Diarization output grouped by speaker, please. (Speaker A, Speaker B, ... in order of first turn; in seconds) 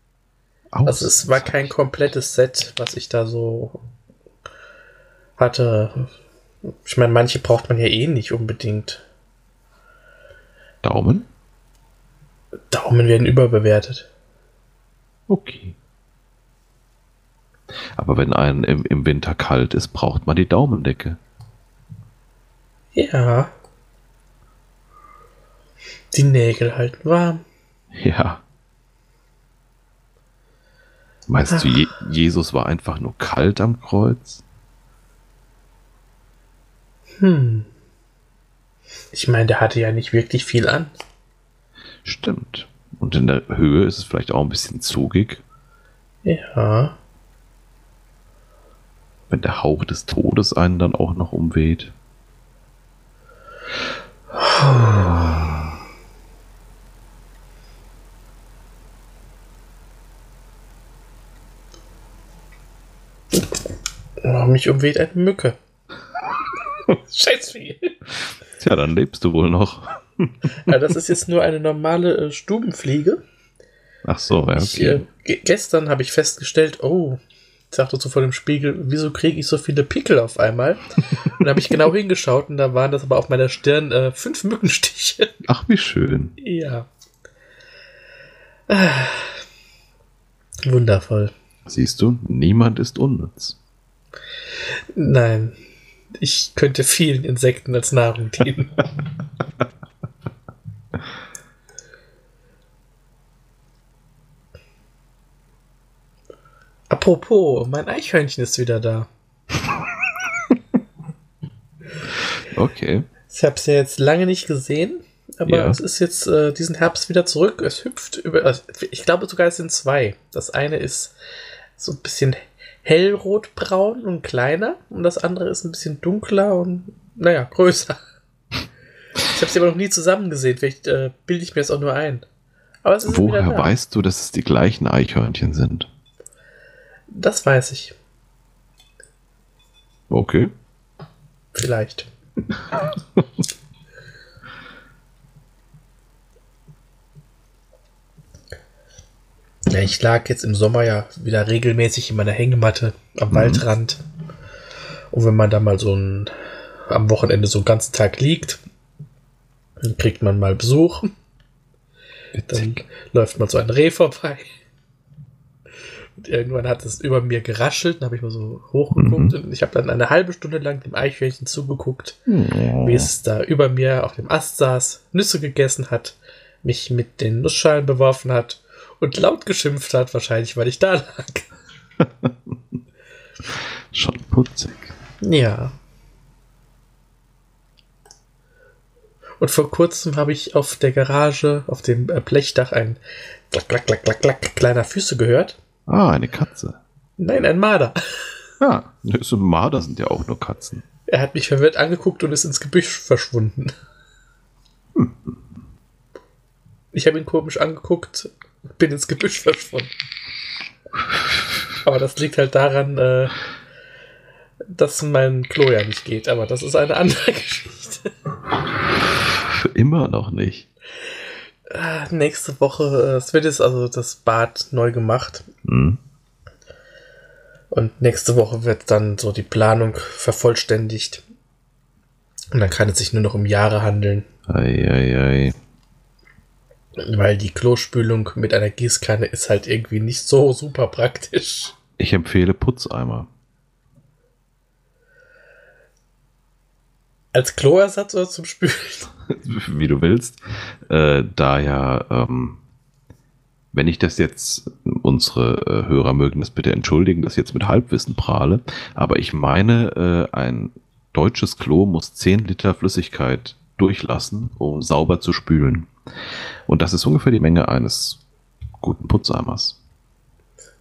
Speaker A: 0.7-1.7, 10.8-11.3, 15.3-15.7, 17.9-21.2, 27.9-28.4, 31.3-34.4, 42.0-45.4, 49.3-51.9, 68.5-70.3, 74.0-75.0, 85.4-86.3, 91.7-93.6, 112.5-113.0, 115.4-115.8, 133.1-135.9, 140.1-140.5, 153.3-153.6, 162.3-162.8, 169.0-169.3, 172.3-173.1, 182.0-182.6, 183.4-184.9, 195.9-196.8, 198.6-200.8, 219.2-220.7, 225.6-226.0, 234.5-235.6, 242.0-243.3, 249.3-252.6, 253.7-265.9, 266.7-268.2, 268.8-269.8
Speaker B: 0.8-3.8, 5.4-6.1, 6.8-9.0, 12.7-14.1, 22.9-23.5, 26.1-27.4, 31.5-31.8, 37.2-37.7, 39.1-40.9, 46.2-47.0, 54.4-55.5, 64.2-65.6, 66.9-67.9, 70.7-73.2, 74.5-77.2, 77.7-85.3, 86.4-86.9, 88.7-89.4, 90.7-91.3, 94.9-95.5, 96.2-98.8, 106.9-109.1, 113.3-121.1, 121.8-128.0, 129.3-132.2, 132.8-133.7, 137.1-137.9, 141.5-142.1, 149.7-154.0, 155.1-156.3, 156.9-158.6, 159.8-161.1, 162.5-164.5, 166.2-172.2, 172.8-181.5, 185.2-185.7, 189.4-195.6, 197.2-198.2, 201.1-203.7, 206.9-209.9, 211.8-213.3, 214.7-218.1, 221.7-225.4, 227.7-231.2, 232.5-234.2, 237.0-241.7, 247.3-249.1